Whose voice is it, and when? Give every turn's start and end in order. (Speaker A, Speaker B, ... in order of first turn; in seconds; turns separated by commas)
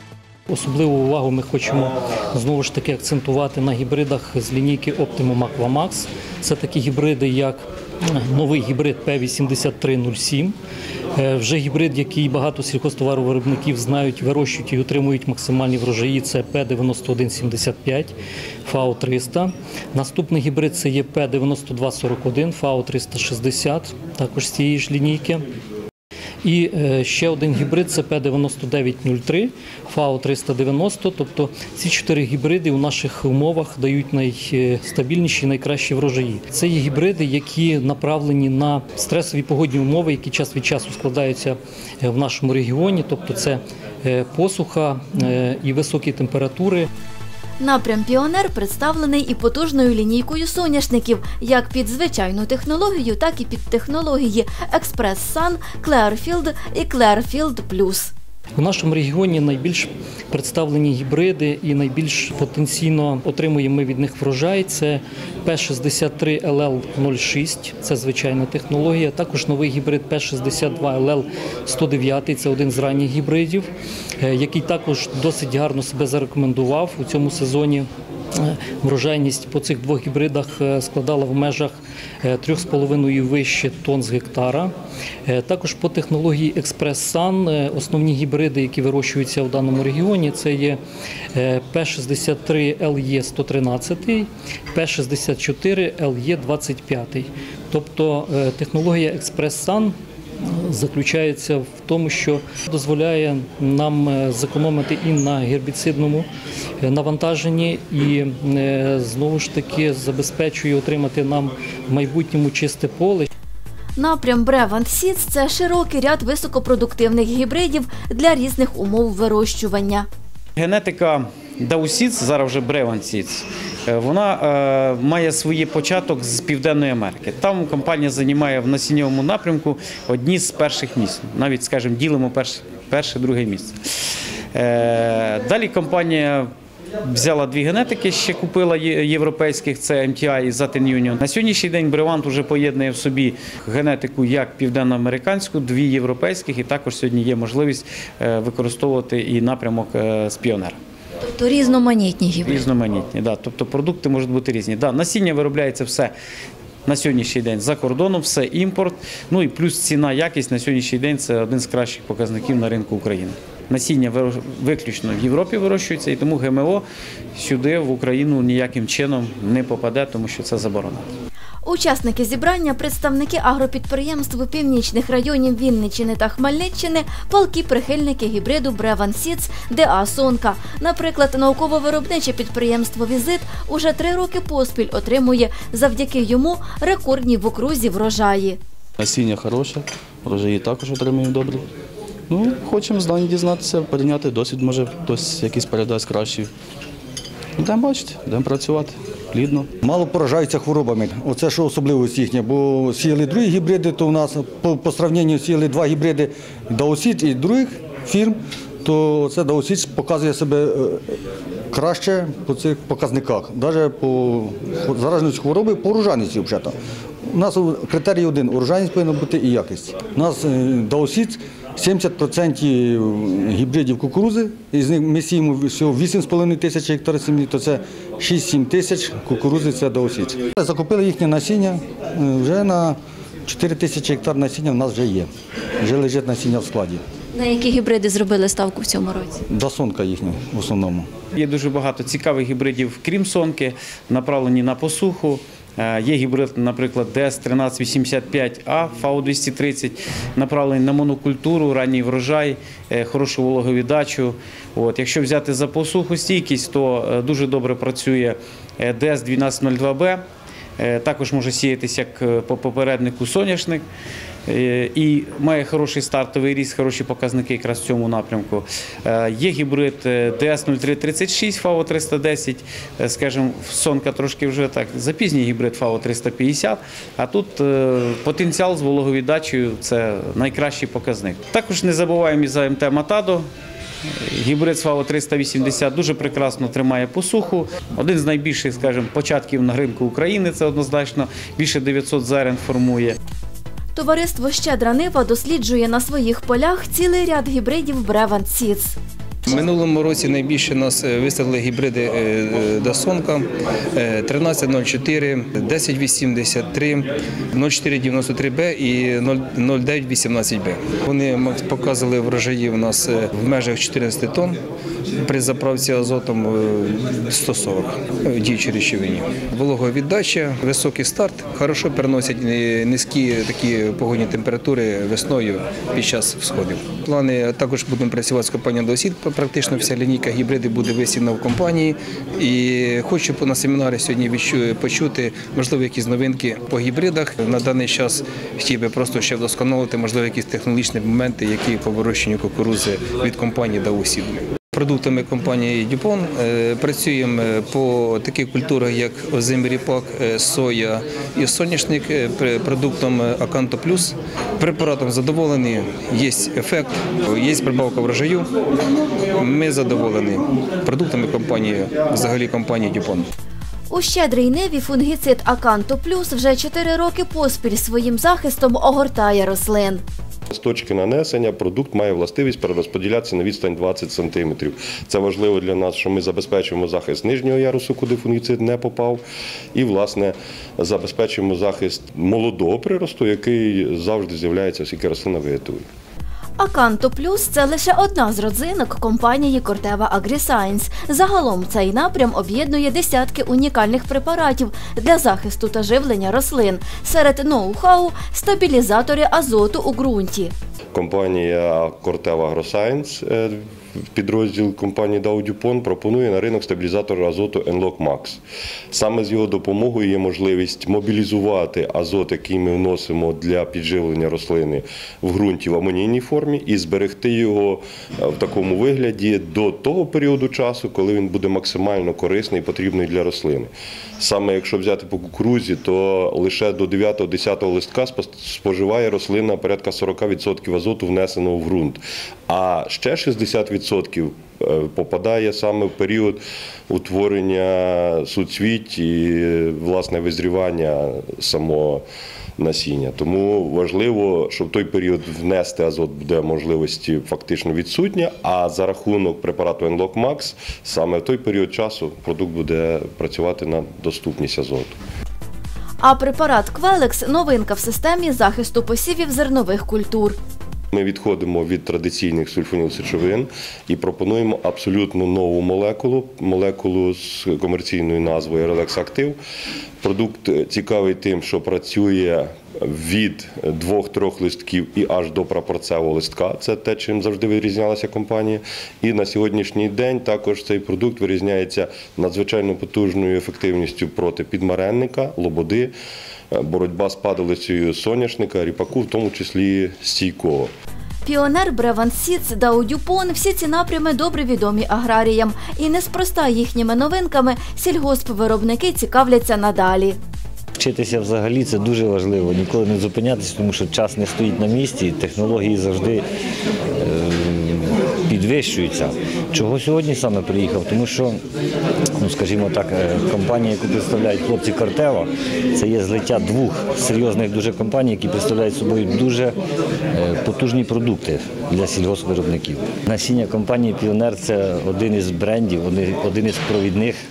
Speaker A: 0.5-10.6, Speaker A: 11.2-18.1, Speaker A: 18.7-25.5, Speaker A: 26.4-46.9, Speaker B: 47.6-58.1, Speaker A: 58.6-73.7, Speaker A: 74.2-84.7, Speaker A: 85.3-90.8, Speaker A: 91.3-106.3, Speaker A: 106.8-113.3, Speaker B: 114.0-120.1, Speaker C: 120.6-133.8, Speaker C: 134.5-136.5, Speaker C: 137.0-150.8, Speaker B: 151.2-152.6, Speaker C: 152.5-156.1, Speaker C: 156.9-166.8, Speaker C: 167.4-171.1, Speaker B: 171.6-188.6, Speaker D: 189.0-191.7, Speaker D: 192.3-196.5, Speaker D: 197.6-199.7, Speaker E: 199.8-211.1, Speaker E: 211.7-216.8, Speaker E: 217.3-235.3, Speaker E: 235.8-237.0, Speaker B: 237.3-239.4, Speaker E: 239.5-241.1, Speaker C: 241.3-260.2, Speaker C: 260.8-263.8, Speaker C: 264.5-283.5, Speaker C: 284.2-293.2, Speaker B: 293.9-299.0, Speaker F: 299.4-314.6, Speaker F: 315.2-358.5, Speaker F: 359.3-363.3, Speaker B: 363.9-370.0, Speaker G: 370.5-379.2, Speaker G: 379.8-385.9, Speaker B: 386.6-400.5, Speaker G: 400.9-403.6, Speaker G: 404.1-442.0, Speaker G: 442.6-454.9, Speaker B: 456.0-460.4, Speaker G: 460.9-469.4, Speaker G: 470.0-485.9, Speaker G: 486.5-490.7, Speaker B: 491.2-500.2, Speaker H: 500.8-506.2, Speaker H: 507.0-511.4, Speaker H: 512.2-519.6, Speaker H: 520.1-527.2